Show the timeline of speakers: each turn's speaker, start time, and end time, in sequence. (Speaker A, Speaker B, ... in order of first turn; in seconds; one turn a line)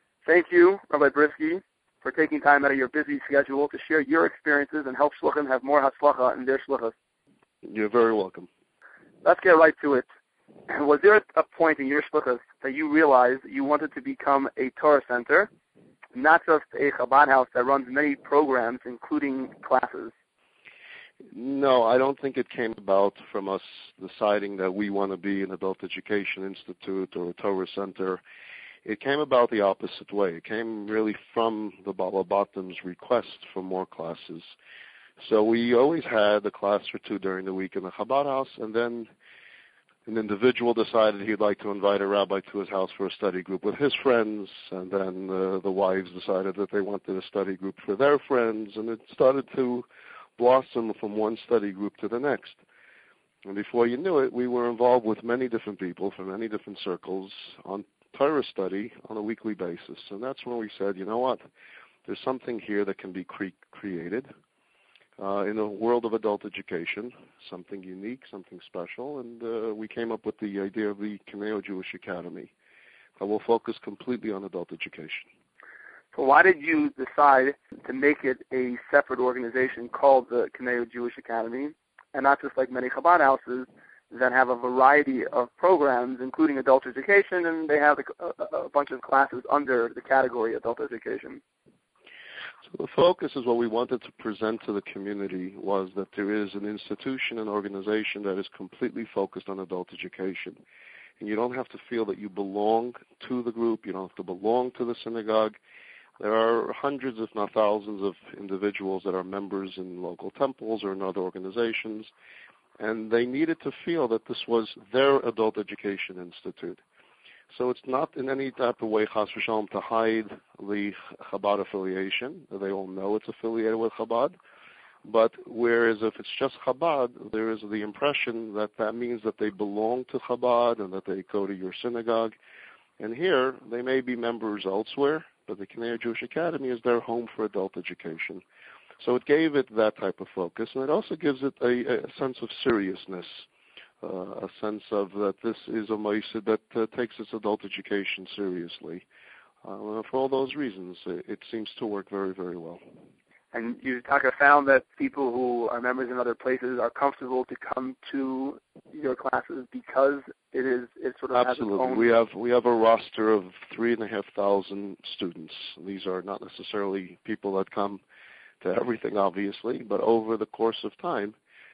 Speaker A: 0.2-6.9
Speaker B: 7.6-8.5
Speaker A: 9.2-10.0
Speaker A: 10.7-15.5
Speaker A: 16.1-20.1
Speaker B: 21.3-28.2
Speaker B: 28.8-34.5
Speaker B: 35.2-39.1
Speaker B: 40.0-52.6
Speaker B: 53.4-61.4
Speaker B: 62.0-64.3
Speaker B: 65.2-72.5
Speaker B: 73.2-75.2
Speaker A: 76.1-91.4
Speaker B: 92.7-100.6
Speaker B: 101.2-105.5
Speaker B: 106.2-112.1
Speaker B: 112.8-116.8
Speaker B: 117.5-124.3
Speaker B: 125.0-132.3
Speaker B: 133.0-138.4
Speaker B: 139.0-143.4
Speaker B: 144.0-149.1
Speaker B: 149.6-152.8
Speaker A: 153.5-162.1
Speaker B: 161.3-168.0
Speaker B: 168.6-171.3